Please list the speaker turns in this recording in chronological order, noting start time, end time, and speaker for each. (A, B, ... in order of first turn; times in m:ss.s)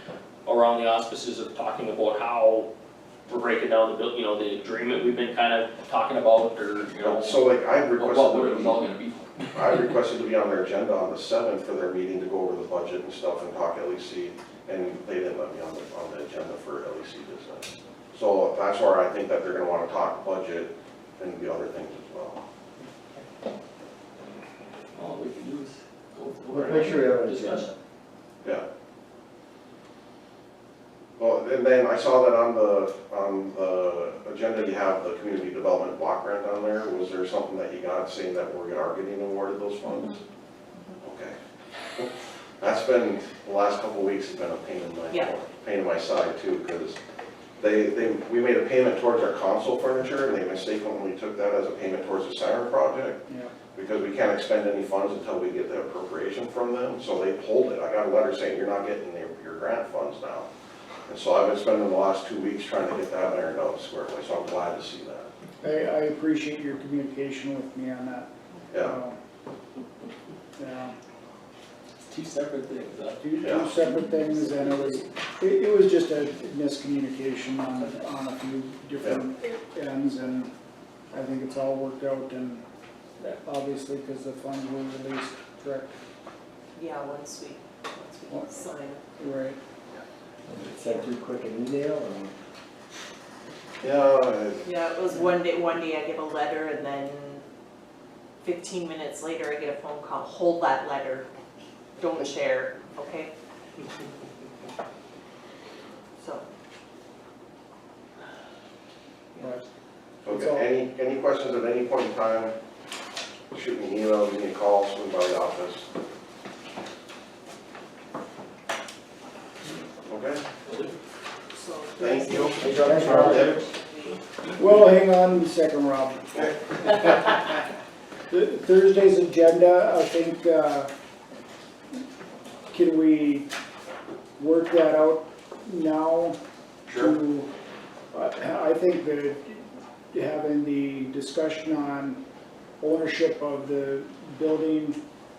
0:00.4-0:02.7 A
0:03.3-0:07.4 A
0:07.0-0:08.8 B
0:08.0-0:09.9 A
0:09.5-0:22.4 B
0:24.9-0:27.7 A
0:26.5-0:27.7 C
0:31.2-0:40.2 B
0:41.0-0:41.3 B
0:42.0-0:47.0 B
0:45.1-0:45.3 D
0:47.6-0:53.2 B
0:53.3-0:53.5 E
0:53.7-1:00.5 B
1:01.1-1:05.3 B
1:05.6-1:08.3 E
1:08.8-1:09.2 E
1:10.6-1:10.9 E
1:12.1-1:13.2 A
1:13.2-1:20.5 E
1:13.4-1:13.7 B
1:13.8-1:15.0 A
1:21.1-1:22.6 E
1:23.4-1:26.0 E
1:26.7-1:29.0 D
1:29.2-1:29.6 E
1:30.5-1:32.3 C
1:30.8-1:31.0 D
1:33.8-1:34.7 B
1:34.6-1:37.4 D
1:38.4-1:41.2 D
1:42.0-1:43.3 D
1:46.2-1:46.4 D
1:50.2-1:52.5 B
1:50.2-1:50.7 E
1:53.5-1:55.8 B
2:00.0-2:00.4 B
2:00.7-2:00.9 A
2:01.5-2:04.2 D
2:02.0-2:03.5 B
2:02.4-2:04.5 A
2:02.8-2:03.5 E
2:04.5-2:07.5 E
2:08.3-2:10.9 E
2:12.7-2:13.5 E
2:14.4-2:16.4 E
2:16.9-2:17.1 B
2:16.9-2:17.5 E
2:18.1-2:22.2 E
2:22.8-2:25.0 E